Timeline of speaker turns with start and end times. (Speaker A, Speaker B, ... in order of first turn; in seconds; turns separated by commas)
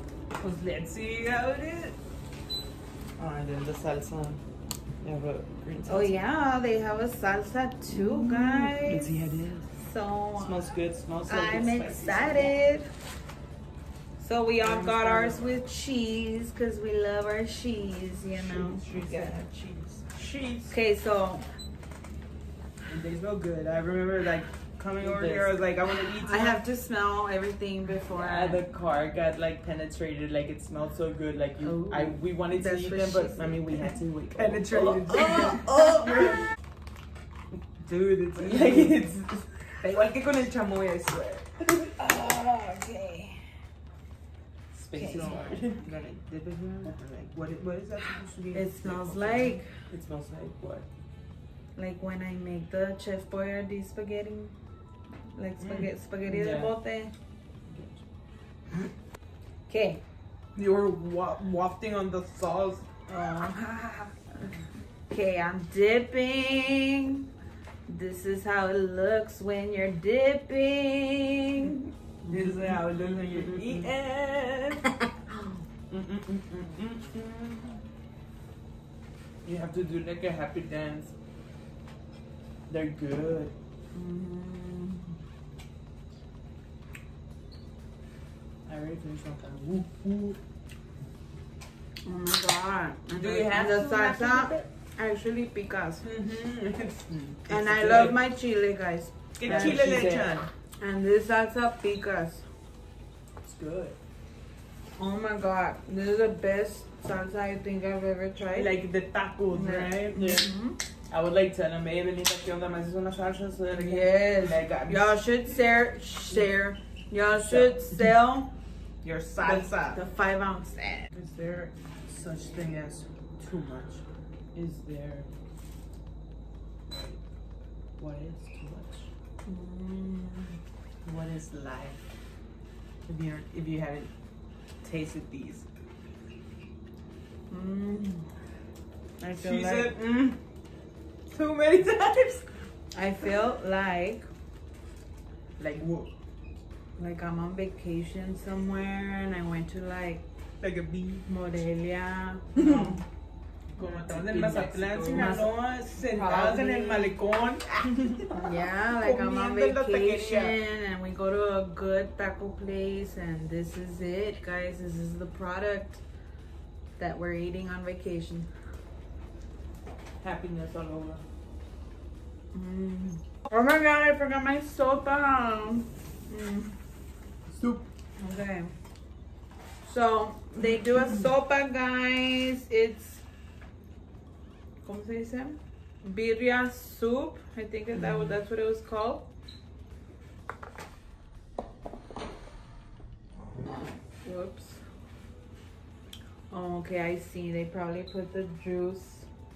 Speaker A: 0.3-2.0, Speaker B: 3.2-4.4, Speaker B: 5.0-6.2, Speaker C: 5.9-10.7, Speaker B: 7.9-9.7, Speaker B: 10.4-12.6, Speaker C: 11.3-12.9, Speaker C: 14.2-19.4, Speaker A: 14.6-15.6, Speaker A: 18.5-19.5, Speaker B: 18.5-19.2, Speaker A: 20.1-20.8, Speaker C: 20.7-21.4, Speaker A: 22.9-26.6, Speaker B: 25.0-25.6, Speaker C: 26.0-28.6, Speaker B: 28.1-36.4, Speaker C: 31.6-33.7, Speaker A: 34.4-36.4, Speaker A: 37.8-39.0, Speaker B: 38.4-39.7, Speaker A: 39.8-41.5, Speaker C: 42.0-43.4, Speaker B: 44.7-45.9, Speaker C: 44.9-45.6, Speaker A: 44.9-49.3, Speaker C: 48.5-49.7, Speaker B: 48.8-50.9, Speaker C: 51.8-54.6, Speaker C: 55.1-57.1, Speaker B: 56.2-56.8, Speaker B: 57.7-58.0, Speaker C: 59.7-60.0, Speaker A: 60.6-64.1, Speaker C: 65.1-67.3, Speaker C: 67.9-71.9, Speaker A: 72.3-73.9, Speaker B: 72.5-74.9, Speaker C: 74.8-75.7, Speaker B: 75.9-77.8, Speaker B: 79.5-81.1, Speaker B: 82.7-83.5, Speaker C: 83.9-85.2, Speaker B: 88.7-90.4, Speaker C: 92.0-96.0, Speaker A: 93.1-94.6, Speaker A: 96.0-98.2, Speaker B: 97.1-98.1, Speaker C: 97.5-100.1, Speaker A: 99.4-100.5, Speaker B: 99.4-100.5, Speaker C: 100.8-102.5, Speaker B: 103.5-103.9, Speaker C: 105.0-108.8, Speaker A: 108.5-110.4, Speaker C: 109.5-110.8, Speaker B: 110.2-110.4, Speaker B: 111.1-115.2, Speaker C: 113.7-118.5, Speaker B: 117.4-117.8, Speaker A: 119.0-120.0, Speaker C: 119.3-121.1, Speaker A: 121.1-121.7, Speaker B: 122.1-122.5, Speaker A: 122.3-123.0, Speaker B: 123.4-124.0, Speaker B: 124.5-125.3, Speaker B: 126.9-127.2, Speaker B: 128.0-129.1, Speaker C: 129.4-130.6, Speaker B: 131.1-132.0, Speaker A: 133.1-134.1, Speaker A: 134.8-135.7, Speaker C: 137.5-138.4, Speaker C: 139.2-139.9, Speaker A: 139.3-140.4, Speaker A: 141.3-142.6, Speaker C: 142.9-144.3, Speaker A: 145.6-146.1, Speaker C: 147.0-150.2, Speaker A: 150.6-151.2, Speaker C: 151.3-153.0, Speaker A: 152.6-152.9, Speaker A: 153.8-158.3, Speaker B: 153.8-155.5, Speaker C: 155.1-157.2, Speaker C: 158.3-166.0, Speaker A: 158.8-160.6, Speaker C: 167.0-168.5, Speaker B: 170.2-171.2, Speaker C: 172.5-176.7, Speaker C: 178.2-178.7, Speaker C: 179.8-183.2, Speaker C: 184.8-189.3, Speaker B: 188.0-188.3, Speaker C: 194.1-194.8, Speaker C: 196.5-199.3